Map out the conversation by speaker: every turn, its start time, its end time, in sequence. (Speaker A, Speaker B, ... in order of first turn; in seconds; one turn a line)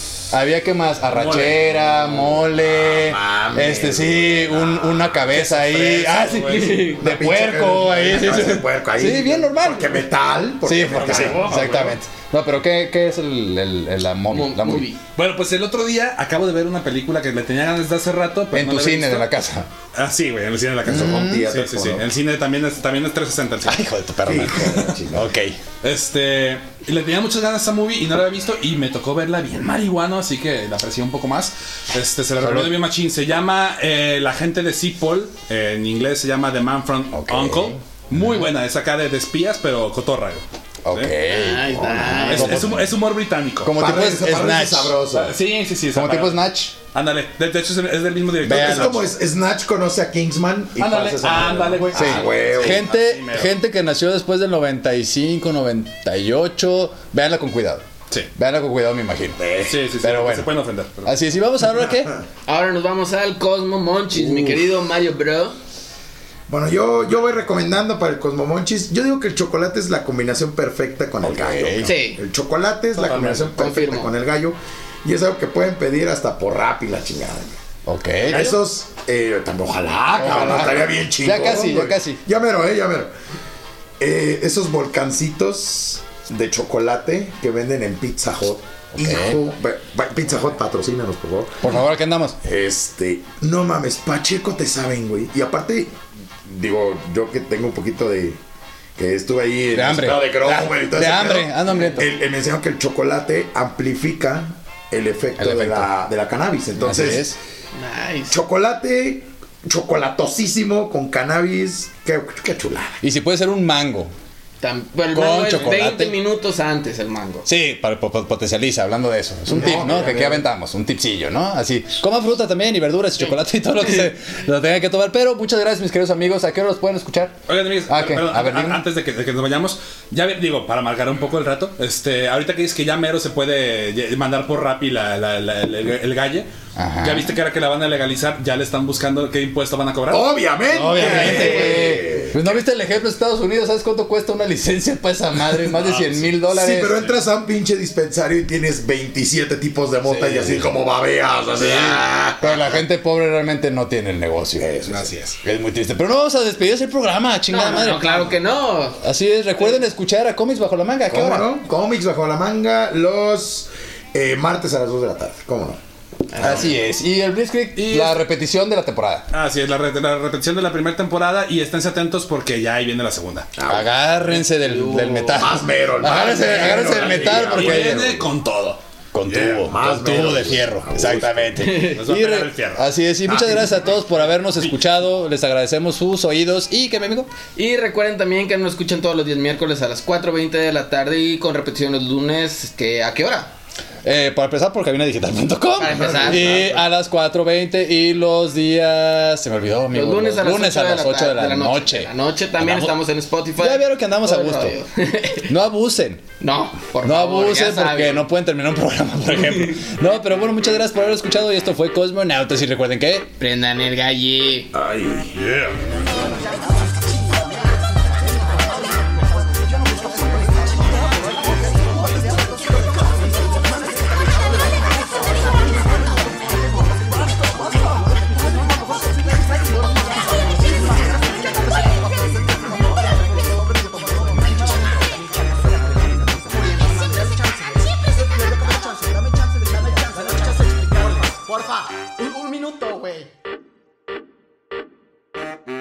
Speaker A: 0.3-10.1
Speaker B: 1.1-2.0
Speaker C: 2.6-5.1
Speaker B: 5.3-6.9
Speaker D: 6.5-7.0
Speaker C: 7.0-11.9
Speaker A: 10.6-14.9
Speaker B: 10.9-12.0
Speaker D: 14.3-15.0
Speaker B: 15.2-19.3
Speaker A: 18.5-19.7
Speaker B: 19.9-23.9
Speaker A: 20.9-21.5
Speaker C: 20.9-22.1
Speaker A: 23.6-25.6
Speaker C: 24.2-25.3
Speaker B: 25.8-41.1
Speaker A: 32.4-32.8
Speaker A: 37.1-38.2
Speaker A: 40.8-43.0
Speaker D: 41.3-42.6
Speaker B: 42.3-43.8
Speaker A: 43.6-45.0
Speaker C: 43.8-45.3
Speaker B: 45.1-46.4
Speaker A: 45.9-46.8
Speaker B: 46.9-49.1
Speaker C: 48.4-52.9
Speaker A: 48.6-48.9
Speaker B: 50.8-53.5
Speaker A: 51.9-57.9
Speaker A: 58.4-59.4
Speaker C: 59.4-59.8
Speaker B: 59.7-61.2
Speaker A: 59.9-60.5
Speaker A: 61.0-62.1
Speaker D: 62.5-65.6
Speaker C: 66.5-77.6
Speaker A: 71.2-71.9
Speaker D: 71.9-72.2
Speaker B: 72.9-73.5
Speaker D: 73.5-74.1
Speaker A: 77.9-78.5
Speaker C: 78.3-83.1
Speaker A: 80.2-82.2
Speaker C: 84.0-91.7
Speaker A: 88.9-89.4
Speaker A: 91.6-92.4
Speaker C: 92.4-96.0
Speaker C: 96.5-98.4
Speaker C: 99.0-107.3
Speaker A: 99.7-102.1
Speaker A: 105.4-105.9
Speaker A: 106.8-107.4
Speaker D: 107.7-108.4
Speaker C: 108.3-113.0
Speaker A: 113.0-114.1
Speaker D: 114.6-117.5
Speaker A: 115.1-116.2
Speaker A: 117.5-128.8
Speaker C: 119.5-120.5
Speaker B: 127.5-136.5
Speaker A: 136.8-137.4
Speaker B: 137.0-140.3
Speaker C: 140.1-142.5
Speaker A: 140.7-147.0
Speaker D: 141.0-141.8
Speaker B: 145.7-146.3
Speaker C: 146.5-152.8
Speaker A: 150.0-150.7
Speaker A: 151.6-154.7
Speaker C: 154.6-155.2
Speaker B: 154.9-155.4
Speaker A: 155.4-158.3
Speaker D: 157.5-159.0
Speaker A: 159.0-161.5
Speaker C: 161.1-165.8
Speaker C: 166.3-166.7
Speaker A: 166.4-169.3
Speaker B: 167.8-168.2
Speaker B: 169.3-173.5
Speaker C: 173.6-173.9
Speaker A: 173.7-178.1
Speaker D: 174.6-175.5
Speaker C: 175.3-178.3
Speaker B: 176.1-178.8
Speaker A: 179.1-187.3
Speaker C: 179.3-181.6
Speaker D: 181.6-182.0
Speaker B: 181.9-182.8
Speaker C: 183.3-183.8
Speaker D: 187.6-193.5
Speaker A: 194.0-203.0
Speaker D: 195.8-196.8
Speaker C: 195.8-196.8
Speaker D: 199.9-205.5
Speaker A: 203.6-204.8
Speaker A: 205.5-206.2
Speaker D: 206.4-208.3
Speaker A: 207.0-213.3
Speaker D: 213.4-214.7
Speaker C: 214.7-215.3
Speaker B: 215.3-215.8
Speaker E: 219.9-220.3
Speaker E: 221.9-222.8
Speaker E: 225.0-226.4
Speaker E: 227.4-243.3